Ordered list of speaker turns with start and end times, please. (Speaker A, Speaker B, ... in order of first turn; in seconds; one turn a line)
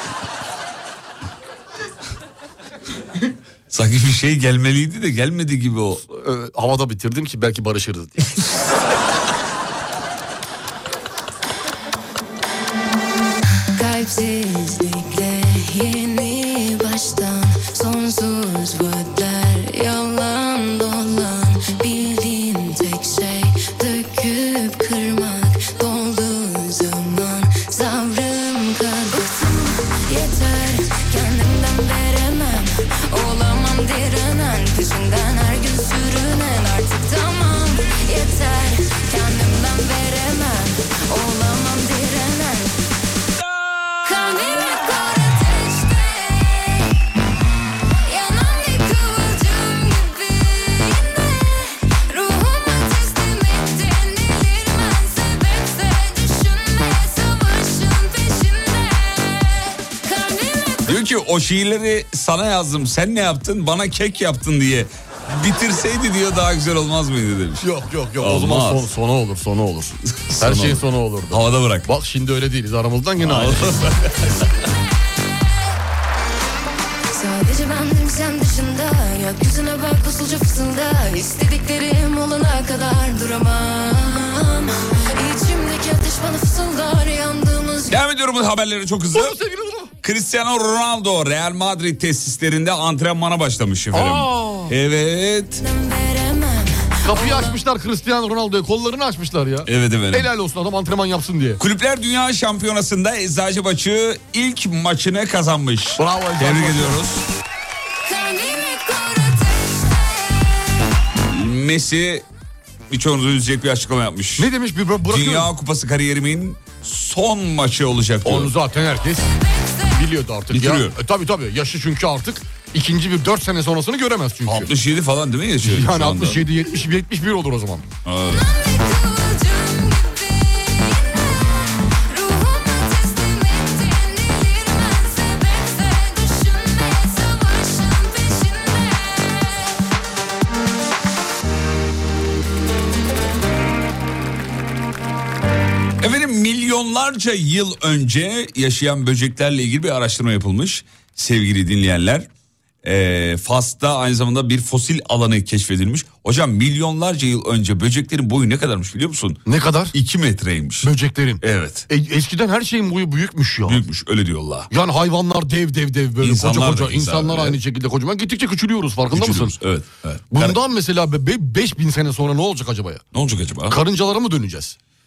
Speaker A: 3.7-6.0
Speaker B: 6.1-8.4
Speaker C: 13.8-42.7
Speaker C: 44.0-46.9
Speaker C: 48.0-60.8
Speaker A: 60.9-67.7
Speaker B: 67.6-73.8
Speaker A: 68.2-68.9
Speaker A: 70.1-71.9
Speaker A: 73.2-74.5
Speaker C: 77.1-87.9
Speaker A: 87.9-89.3
Speaker B: 89.1-89.9
Speaker A: 90.0-95.6
Speaker B: 93.9-94.7
Speaker C: 95.7-96.7
Speaker B: 97.0-101.6
Speaker A: 99.6-100.3
Speaker A: 101.6-107.2
Speaker B: 106.0-107.0
Speaker C: 108.1-110.1
Speaker A: 111.2-112.2
Speaker A: 112.9-114.5
Speaker B: 114.4-115.5
Speaker A: 115.0-118.5
Speaker B: 118.2-119.3
Speaker B: 119.9-124.7
Speaker A: 120.5-121.0
Speaker A: 124.4-126.5
Speaker B: 125.6-127.8
Speaker A: 128.0-128.5
Speaker C: 128.6-131.2
Speaker C: 132.1-139.5
Speaker A: 146.0-152.3
Speaker A: 152.8-159.4
Speaker B: 159.4-159.9
Speaker A: 159.9-161.8
Speaker B: 160.8-163.8
Speaker A: 163.7-164.7
Speaker B: 164.7-169.6
Speaker A: 166.2-167.6
Speaker A: 169.1-170.6
Speaker B: 170.3-173.0
Speaker A: 173.1-173.8
Speaker B: 173.7-174.8